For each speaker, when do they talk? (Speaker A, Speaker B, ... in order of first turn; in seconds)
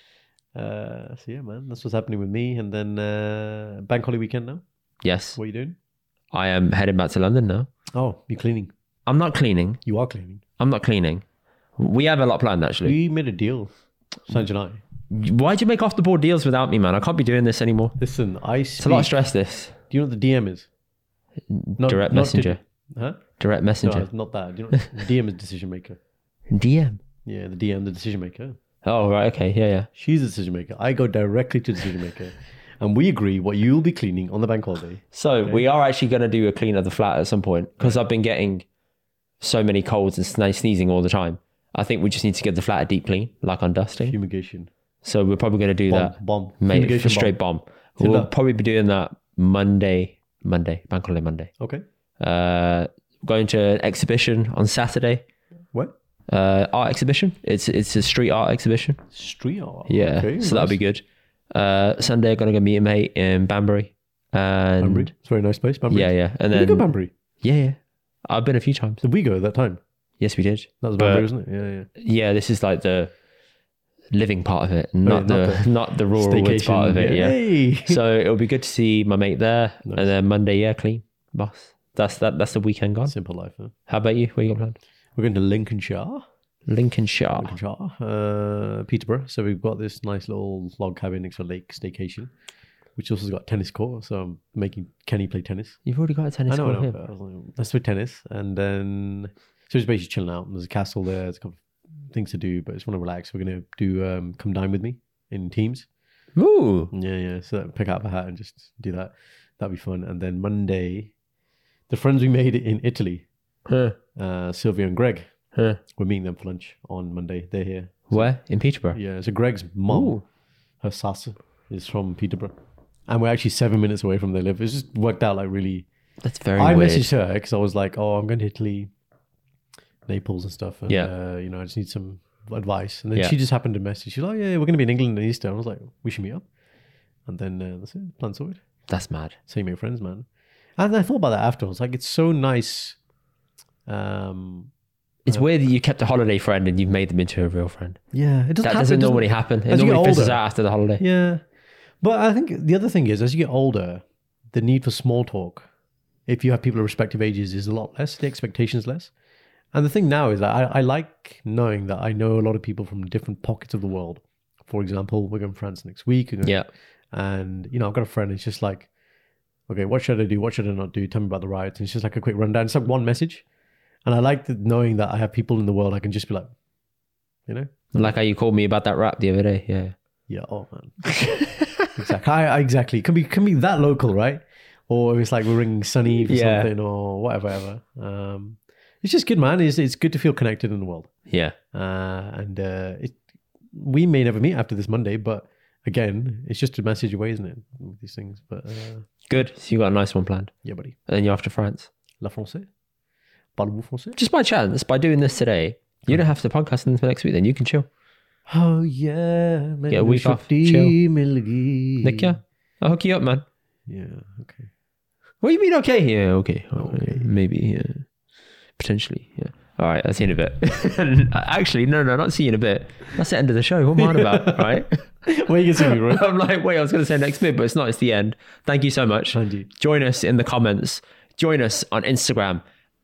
Speaker A: 0.5-4.6, 5.3-5.8, 7.9-8.7, 9.8-10.4, 12.8-13.7, 14.2-14.8, 18.0-19.2, 19.9-20.7, 21.8-23.2, 23.8-26.0, 27.2-28.6, 29.9-35.6, 44.0-44.7, 45.9-47.4, 48.0-48.3, 59.1-60.8, 64.8-67.1, 69.0-69.8, 70.8-71.9, 75.0-78.0, 79.8-80.1, 83.1-83.7, 85.2-86.2, 87.4-92.3, 93.0-95.8, 96.5-105.9, 106.9-111.1, 111.9-113.2, 114.2-115.3, 116.0-118.3, 118.9-120.2, 120.8-122.5, 123.1-125.8, 126.5-128.9, 130.1-136.4, 137.3-138.6, 139.5-140.2, 140.8-143.0, 143.9-144.7, 148.1-150.4, 151.0-151.4, 152.0-155.7, 156.3-159.1, 159.7-168.9, 169.7-173.4, 174.1-176.5, 177.5-178.1, 180.3-181.0, 181.9-191.1, 191.7-193.2, 193.7-199.1, 200.6-200.9, 202.2-202.7, 203.6-204.2, 208.5-212.3, 213.9-214.7, 216.8-217.3, 224.0-226.2, 229.3-229.7
Speaker B: 5.0-5.4, 6.3-7.7, 9.1-9.8, 10.6-11.2, 11.8-13.0, 15.1-17.9, 18.8-19.7, 21.5-22.6, 23.4-24.1, 26.5-27.0, 28.8-29.9, 35.1-38.6, 39.4-44.1, 45.0-51.5, 52.2-55.2, 56.3-59.0, 59.9-65.1, 65.9-66.8, 67.4-69.0, 70.2-71.2, 72.0-73.1, 74.1-83.1, 83.9-84.8, 86.7-87.5, 95.8-97.0, 106.3-106.9, 113.7-114.0, 115.5-115.8, 118.1-119.0, 119.9-120.2, 126.2-127.1, 138.9-139.4, 145.2-148.0, 148.6-151.0, 177.9-179.9, 181.1-181.9, 186.2-186.7, 191.3-191.6, 199.3-200.5, 201.1-201.9, 204.2-207.9, 209.9-210.9, 212.0-213.4, 215.4-218.1, 218.8-225.0, 225.8-232.6